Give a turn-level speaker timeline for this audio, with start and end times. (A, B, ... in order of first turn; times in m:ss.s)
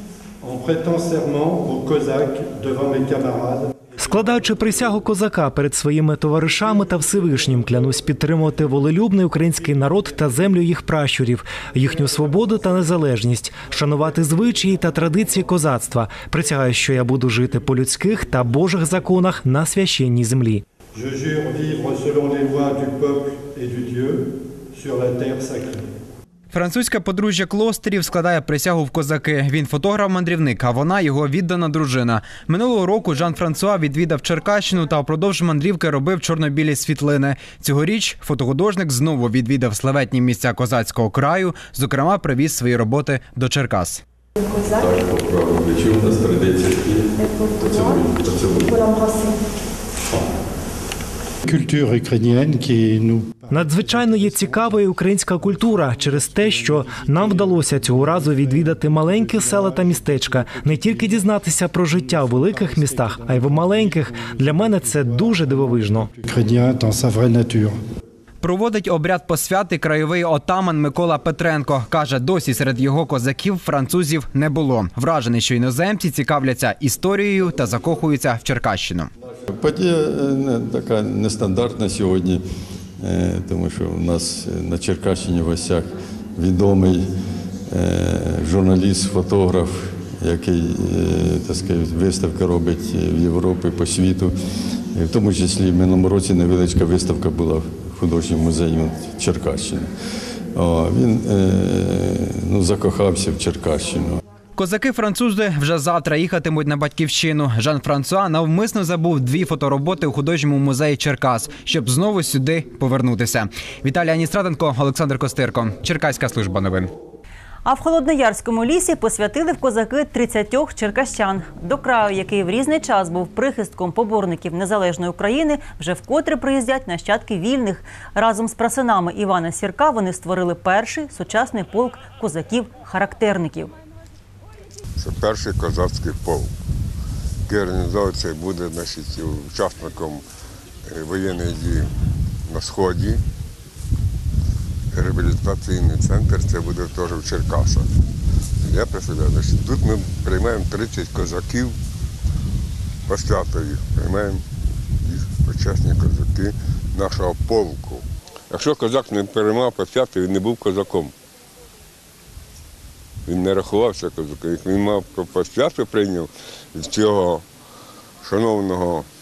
0:00.4-0:04.0 A
0:04.0-0:20.6 B
0:20.9-0:25.8 A
0:26.5-0:44.0 C
0:44.5-0:49.1 D
0:51.4-1:07.7 A
0:53.5-1:06.1 B
1:08.4-1:19.1 C
1:19.5-1:22.4 D
1:23.0-1:27.1 D
1:27.7-1:34.4 D
1:34.9-1:39.9 D
1:40.5-1:44.2 D
1:44.6-1:56.9 C
1:57.6-2:13.7 E
2:15.0-2:16.5 F
2:17.4-2:20.2 F
2:20.8-2:21.9 F
2:22.5-2:23.2 F
2:24.9-2:27.9 F
2:28.6-2:31.8 F
2:33.1-2:34.4 F
2:35.0-2:41.1 F
2:43.2-2:47.4 F
2:48.2-2:49.1 F